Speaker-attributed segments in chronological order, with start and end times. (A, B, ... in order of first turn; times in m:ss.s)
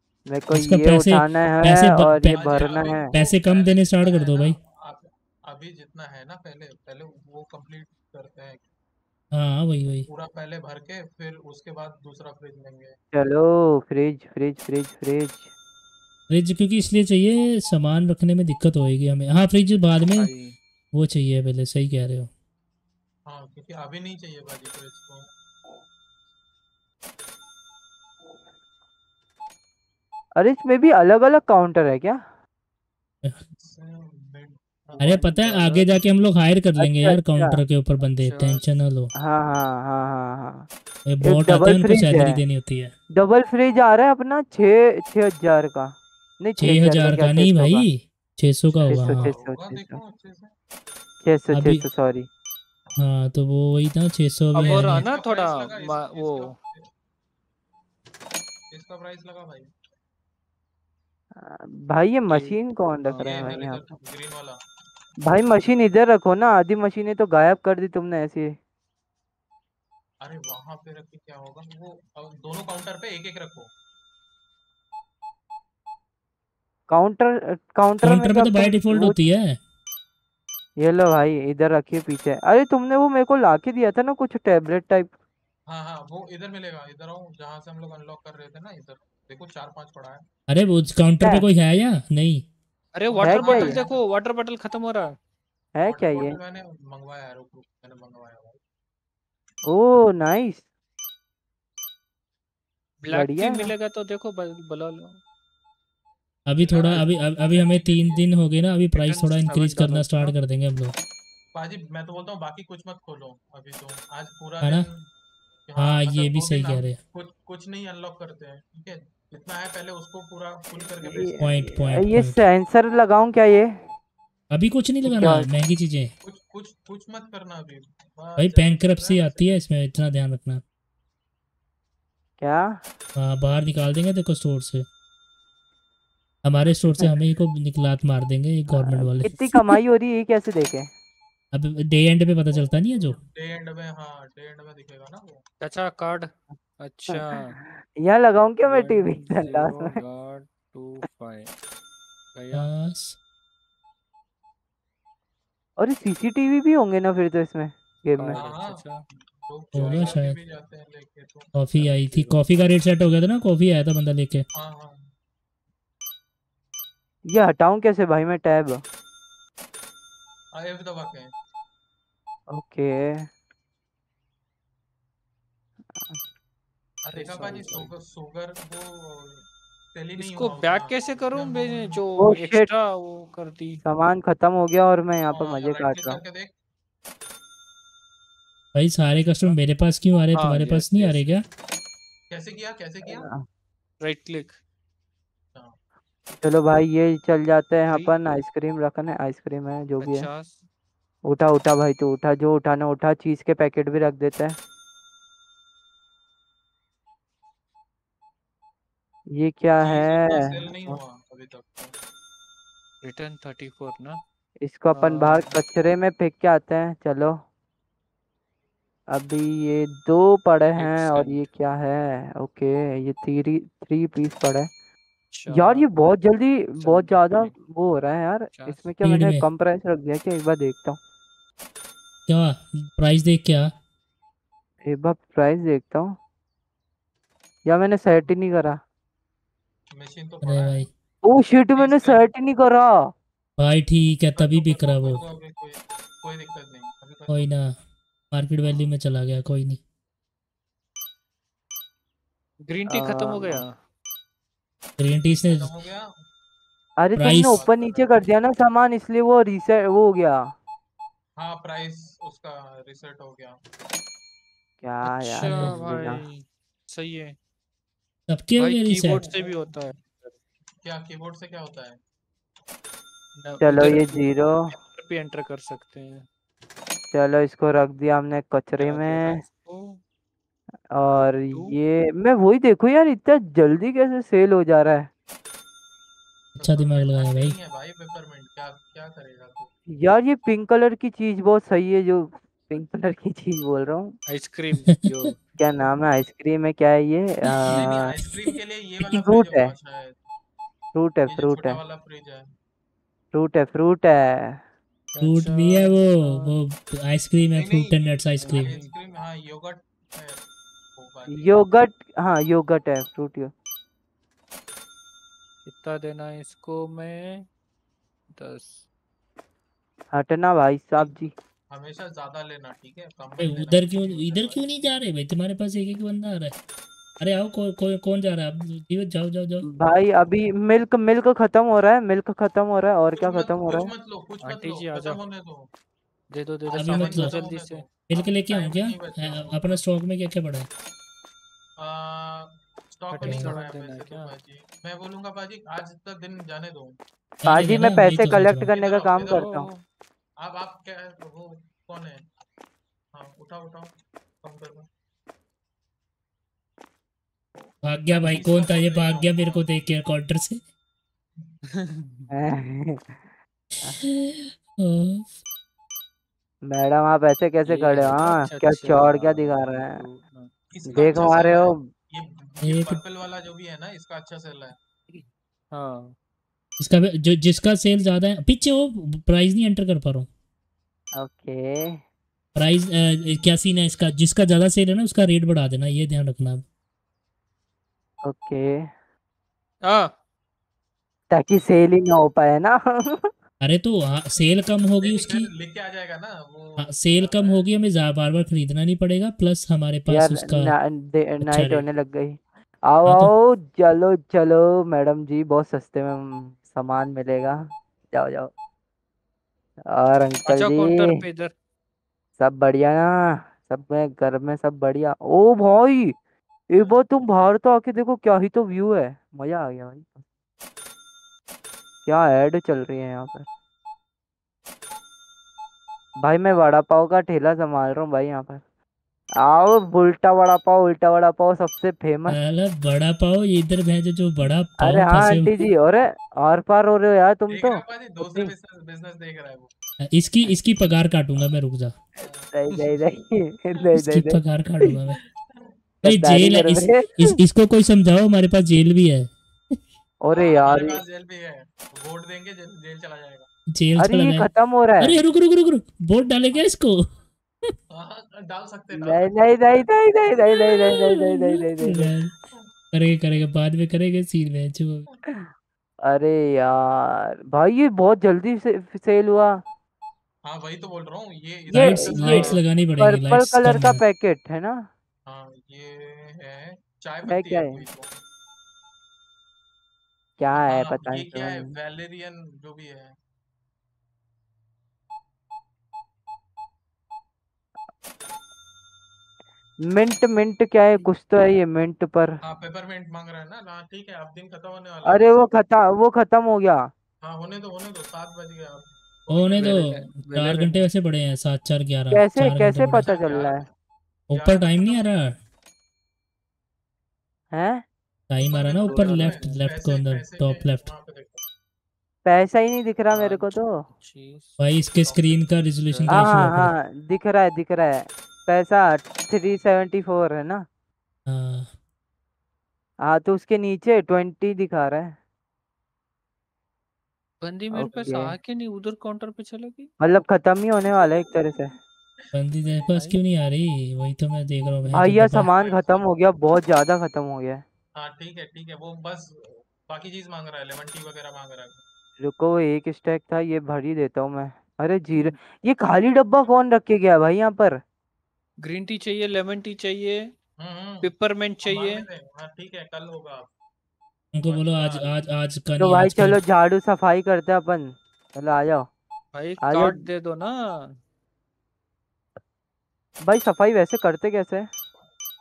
0:00.3-0:03.1 A
0:00.5-0:04.6 B
0:02.4-0:08.7 C
0:09.3-0:10.1 B
0:10.1-0:12.9 C
0:13.1-0:15.5 A
0:16.3-0:20.3 B
0:20.2-0:20.6 D
0:20.9-0:22.3 B
0:23.3-0:25.3 C
0:30.4-0:32.2 A
0:33.6-0:35.2 C
0:34.9-0:35.9 D
0:35.0-0:39.1 B
0:36.8-0:37.6 A
0:38.2-0:38.6 D
0:39.2-0:40.7 A
0:41.1-0:42.9 B
0:41.2-0:42.4 A
0:43.2-0:47.9 A
0:46.6-0:49.3 B
0:48.7-0:50.5 C
0:48.9-0:50.0 A
0:51.2-0:52.3 A
0:51.5-0:51.8 B
0:53.0-0:55.0 B
0:54.6-0:56.5 D
0:54.6-0:56.9 C
0:58.7-0:59.7 C
1:01.4-1:03.8 A
1:02.3-1:03.4 D
1:03.2-1:04.6 C
1:05.2-1:08.5 A
1:10.2-1:13.7 C
1:16.9-1:19.2 A
1:18.0-1:19.6 B
1:20.8-1:25.1 A
1:25.7-1:30.2 C
1:30.5-1:32.4 B
1:33.0-1:35.1 D
1:33.1-1:34.0 C
1:33.2-1:33.8 A
1:35.8-1:36.4 A
1:35.9-1:38.6 C
1:39.7-1:40.6 A
1:43.0-1:45.2 D
1:43.1-1:43.7 A
1:46.5-1:50.9 B
1:46.6-1:48.3 C
1:48.9-1:50.3 D
1:51.5-1:55.0 C
1:55.7-2:01.4 C
1:55.8-1:57.0 B
2:01.0-2:03.7 A
2:01.4-2:02.4 B
2:04.5-2:06.1 B
2:05.0-2:05.5 A
2:06.2-2:09.6 C
2:08.4-2:10.6 B
2:12.4-2:12.8 A
2:13.2-2:14.8 B
2:16.4-2:19.8 B
2:18.7-2:20.9 A
2:21.5-2:23.2 B
2:22.6-2:25.4 C
2:25.6-2:27.5 D
2:27.1-2:29.9 A
2:28.6-2:31.5 D
2:32.4-2:32.6 D
2:32.5-2:33.2 B
2:35.8-2:38.4 A
2:38.2-2:39.0 D
2:38.4-2:41.6 C
2:39.7-2:40.4 B
2:39.8-2:40.2 D
2:41.6-2:44.4 B
2:41.8-2:42.4 D
2:44.6-2:45.0 C
2:47.3-2:48.8 A
2:50.6-2:51.3 C
2:52.5-2:53.3 A
2:55.9-2:56.2 A
2:57.1-3:02.0 C
2:57.1-2:57.9 A
3:00.2-3:03.8 D
3:02.2-3:02.7 A
3:03.8-3:06.2 A
3:05.3-3:06.5 C
3:08.7-3:11.4 B
3:10.3-3:11.4 D
3:12.3-3:13.3 C
3:13.1-3:13.4 A
3:14.0-3:14.6 D
3:16.4-3:20.3 A
3:20.0-3:20.6 D
3:21.2-3:24.6 A
3:29.4-3:31.0 A
3:29.8-3:31.9 C
3:33.0-3:34.2 D
3:34.6-3:37.4 A
3:34.9-3:35.6 D
3:39.1-3:44.7 A
3:40.7-3:41.4 D
3:45.3-3:45.9 D
3:45.5-3:51.0 A
3:46.8-3:47.5 D
3:48.5-3:48.9 D
3:49.0-3:49.5 B
3:52.3-3:53.7 B
3:54.9-3:56.2 A
3:57.6-3:58.8 A
3:59.9-4:00.9 C
4:00.4-4:00.9 B
4:01.2-4:02.9 A
4:01.7-4:02.3 C
4:03.6-4:05.2 B
4:04.4-4:07.5 C
4:07.3-4:07.7 B
4:08.3-4:09.8 B
4:12.6-4:13.7 D
4:12.9-4:13.6 A
4:15.0-4:15.7 B
4:15.3-4:16.1 C
4:17.0-4:20.5 A
4:17.2-4:17.6 B
4:17.4-4:18.3 C
4:21.4-4:23.6 C
4:24.8-4:26.2 A
4:25.1-4:27.4 D
4:25.5-4:25.8 B
4:28.3-4:29.2 B
4:28.6-4:30.4 D
4:30.8-4:32.0 C
4:33.4-4:34.2 D
4:33.6-4:34.7 A
4:34.7-4:36.2 D
4:37.1-4:39.4 A
4:38.8-4:40.0 D
4:40.9-4:45.1 A
4:41.5-4:41.8 D
4:46.6-4:47.6 B
4:46.6-4:49.7 C
4:49.9-4:54.1 A
4:54.3-4:55.4 D
4:55.6-4:58.1 A
4:57.5-4:58.4 B
4:57.7-5:00.2 C
4:59.1-4:59.7 A
5:00.9-5:01.8 A
5:01.3-5:02.5 C
5:03.3-5:04.6 A
5:05.1-5:06.5 D
5:05.2-5:08.7 B
5:07.6-5:07.9 C
5:08.4-5:08.9 D
5:08.5-5:10.4 C
5:11.0-5:11.6 C
5:11.3-5:13.5 A
5:15.6-5:17.4 D
5:18.3-5:18.8 D
5:20.1-5:21.3 A
5:21.7-5:24.6 C
5:23.4-5:26.6 B
5:27.2-5:29.6 B
5:29.7-5:33.9 A
5:33.2-5:35.7 C
5:34.4-5:35.2 D
5:36.3-5:37.8 D
5:36.7-5:39.8 C
5:36.8-5:37.3 B
5:38.1-5:40.7 B
5:41.8-5:47.0 C
5:43.1-5:44.3 D
5:43.2-5:43.5 B
5:47.4-5:48.7 B
5:47.5-5:49.7 A
5:48.6-5:49.5 C
5:49.3-5:49.8 D
5:50.4-5:52.2 C
5:53.1-5:54.9 C
5:57.6-5:59.8 C
5:57.8-6:00.6 B
6:01.7-6:02.3 D
6:02.3-6:03.2 A
6:04.0-6:05.3 B
6:06.7-6:10.0 A
6:07.6-6:10.5 D
6:10.7-6:14.8 C
6:10.9-6:11.9 A
6:12.6-6:13.0 B
6:15.7-6:16.1 D
6:16.8-6:20.3 B
6:21.2-6:22.0 A
6:22.6-6:26.6 B
6:28.2-6:28.7 A
6:31.3-6:33.3 A
6:33.6-6:35.5 B
6:35.0-6:37.6 C
6:36.8-6:40.7 B
6:40.1-6:42.4 A
6:41.4-6:41.8 B
6:42.9-6:48.5 A
6:43.1-6:43.3 B
6:49.9-6:51.1 A
6:50.4-6:51.5 D
6:52.4-6:56.1 A
6:56.7-7:00.2 A
6:56.7-6:57.0 C
7:02.1-7:03.4 A
7:06.2-7:08.6 A
7:09.4-7:12.4 A
7:12.3-7:15.6 B
7:14.8-7:18.5 A
7:17.5-7:19.7 C
7:20.1-7:21.9 B
7:22.2-7:22.5 C
7:22.5-7:24.4 A
7:23.9-7:25.2 B
7:26.0-7:27.2 A
7:26.0-7:29.3 B
7:30.2-7:31.0 A
7:30.3-7:33.5 C
7:33.7-7:34.5 B
7:34.0-7:35.2 A
7:35.0-7:37.0 B
7:37.9-7:40.0 C
7:38.9-7:42.1 A
7:41.2-7:42.3 B
7:42.9-7:45.0 B
7:46.0-7:49.6 A
7:50.4-7:52.9 C
7:51.7-7:54.9 A
7:51.7-7:54.0 B
7:55.3-7:58.2 C
7:57.3-7:57.8 A
8:00.4-8:01.7 A
8:00.5-8:03.2 C
8:09.9-8:12.4 A
8:12.4-8:15.5 C
8:15.1-8:16.9 A
8:17.2-8:19.9 C
8:19.3-8:23.1 B
8:19.6-8:20.9 D
8:22.1-8:23.6 A
8:22.9-8:23.7 C
8:24.3-8:25.3 B
8:24.3-8:25.1 C
8:27.5-8:27.8 A
8:28.3-8:30.9 B
8:28.4-8:31.4 C
8:28.8-8:29.6 D
8:32.2-8:33.7 A
8:33.1-8:34.6 D
8:34.6-8:36.7 B
8:35.0-8:35.4 C
8:35.9-8:36.5 D
8:36.1-8:40.6 A
8:41.3-8:41.7 B
8:43.1-8:45.1 A
8:47.4-8:49.9 D
8:47.7-8:48.3 A
8:50.0-8:51.7 A
8:52.2-8:52.8 C
8:52.3-8:55.5 B
8:52.9-8:53.2 D
8:55.0-8:57.6 A
8:55.4-8:56.1 C
8:58.0-9:01.8 C
9:02.2-9:07.8 A
9:08.6-9:10.2 D
9:10.6-9:11.1 C
9:11.0-9:12.0 D
9:11.6-9:13.5 C
9:14.3-9:16.4 B
9:14.4-9:15.1 C
9:15.8-9:18.9 A
9:19.3-9:20.9 D
9:19.6-9:20.0 A
9:23.2-9:24.7 A